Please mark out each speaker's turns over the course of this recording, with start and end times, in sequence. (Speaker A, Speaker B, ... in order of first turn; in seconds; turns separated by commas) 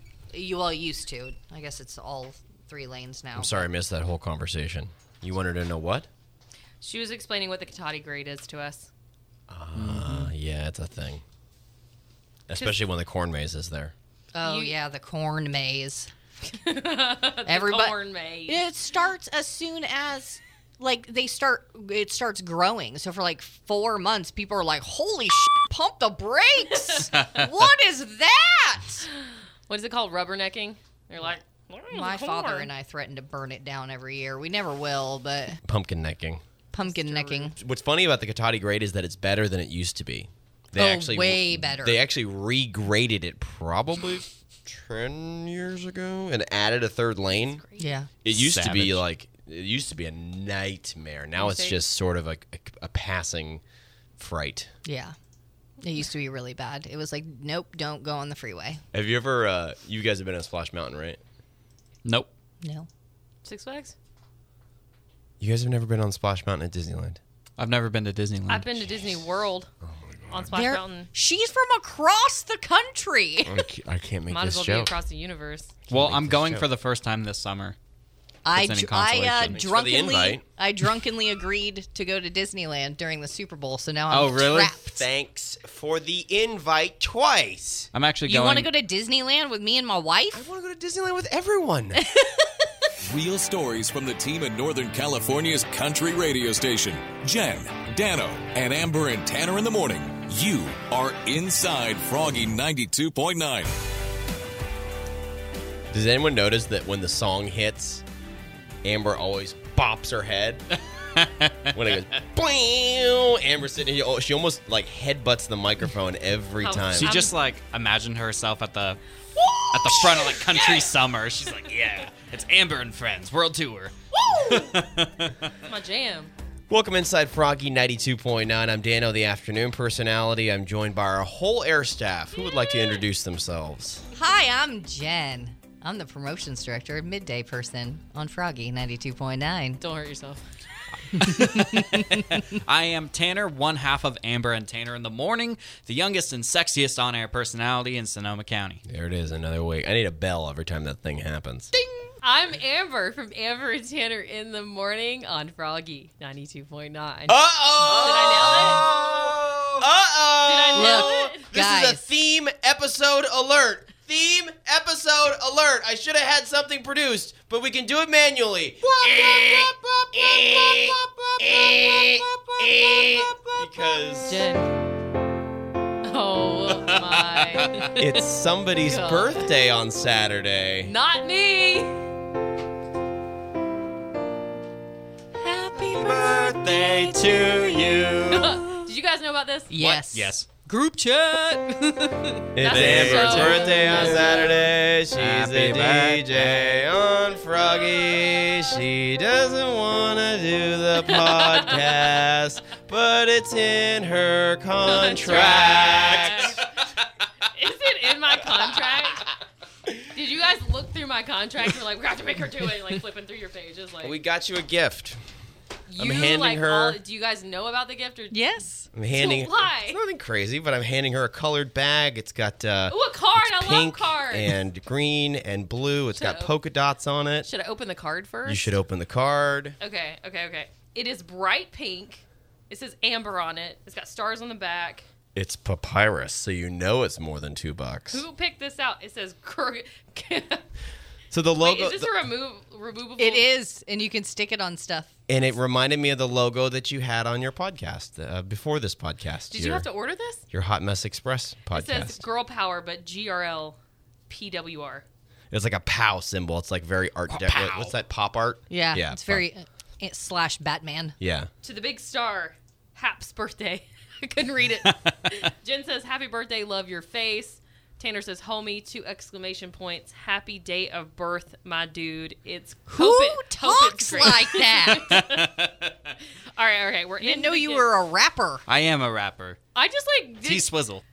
Speaker A: 0.3-3.7, Speaker B: 3.4-6.1, Speaker C: 6.8-8.9, Speaker B: 9.5-11.2, Speaker D: 9.8-10.3, Speaker B: 12.5-13.9, Speaker A: 14.3-16.1, Speaker C: 14.4-14.7, Speaker C: 16.5-18.6, Speaker A: 17.4-29.1, Speaker D: 27.2-27.5, Speaker C: 29.7-32.7, Speaker A: 31.9-35.6, Speaker B: 35.6-36.4, Speaker A: 36.7-37.5, Speaker C: 36.8-37.5, Speaker B: 37.5-47.6, Speaker A: 40.7-42.0, Speaker C: 47.3-47.9, Speaker A: 47.8-48.1, Speaker B: 48.2-53.6, Speaker D: 48.3-49.0, Speaker C: 51.4-51.8, Speaker B: 54.2-54.7, Speaker A: 54.8-55.1, Speaker A: 55.8-58.8, Speaker B: 58.9-61.2, Speaker D: 62.0-62.3, Speaker A: 62.6-62.9, Speaker C: 63.4-63.9, Speaker B: 65.4-67.2, Speaker D: 67.6-68.7, Speaker C: 68.5-69.7, Speaker B: 69.8-70.6, Speaker C: 70.3-71.1, Speaker A: 70.5-73.6, Speaker B: 73.5-75.0, Speaker C: 74.3-75.8, Speaker B: 75.9-76.7, Speaker D: 75.9-77.8, Speaker A: 78.4-85.0, Speaker D: 78.5-79.6, Speaker B: 79.4-80.4, Speaker D: 84.1-84.8, Speaker B: 84.9-87.9, Speaker D: 87.9-88.7, Speaker A: 88.2-90.4, Speaker B: 90.3-92.0, Speaker A: 92.1-92.4, Speaker E: 93.0-103.7, Speaker B: 105.9-108.0, Speaker B: 108.8-110.6, Speaker D: 111.1-111.8, Speaker B: 111.7-117.1, Speaker C: 116.6-117.3, Speaker D: 116.9-119.0, Speaker D: 119.7-125.5, Speaker A: 124.3-124.6, Speaker C: 125.6-126.3, Speaker B: 126.7-134.1, Speaker A: 134.1-139.8, Speaker C: 139.8-140.4, Speaker D: 141.1-148.8, Speaker A: 141.3-142.2, Speaker B: 148.8-151.7, Speaker C: 152.2-158.9, Speaker B: 157.3-174.5, Speaker D: 158.0-158.9, Speaker C: 160.4-161.4, Speaker A: 160.7-162.0, Speaker D: 172.3-173.5, Speaker C: 174.3-174.8, Speaker C: 176.0-178.1, Speaker D: 176.9-177.9, Speaker B: 177.9-180.9, Speaker C: 178.8-179.5, Speaker C: 180.8-182.1, Speaker A: 185.4-186.4, Speaker D: 185.7-188.7, Speaker A: 187.1-187.4, Speaker C: 188.3-189.7, Speaker A: 189.7-192.5, Speaker D: 189.8-190.5, Speaker B: 192.5-206.6, Speaker C: 192.6-194.5, Speaker D: 192.7-194.3, Speaker D: 195.1-196.7, Speaker C: 201.1-202.1, Speaker C: 204.9-206.6, Speaker D: 205.2-206.7, Speaker C: 207.5-209.3, Speaker C: 210.1-214.1, Speaker B: 214.0-215.2, Speaker C: 215.9-218.3, Speaker B: 216.0-217.0, Speaker A: 218.3-218.9, Speaker B: 218.9-227.5, Speaker C: 219.1-220.0, Speaker C: 222.9-224.5, Speaker C: 226.2-226.5, Speaker C: 227.4-228.7, Speaker B: 228.4-229.8, Speaker C: 229.8-235.1, Speaker B: 235.3-238.2, Speaker C: 238.1-240.6, Speaker B: 241.3-242.1, Speaker C: 241.6-243.4, Speaker A: 243.2-245.1, Speaker B: 245.3-249.9, Speaker C: 249.5-250.4, Speaker B: 250.5-252.2, Speaker C: 251.7-255.0, Speaker B: 255.5-259.4, Speaker D: 257.3-257.9, Speaker A: 258.7-261.2, Speaker B: 261.2-261.5, Speaker C: 261.6-275.6, Speaker D: 264.9-265.1, Speaker A: 272.9-275.2, Speaker D: 274.9-275.8, Speaker C: 276.5-277.9, Speaker A: 277.2-278.6, Speaker D: 278.7-279.6, Speaker C: 279.7-280.7, Speaker D: 280.4-281.0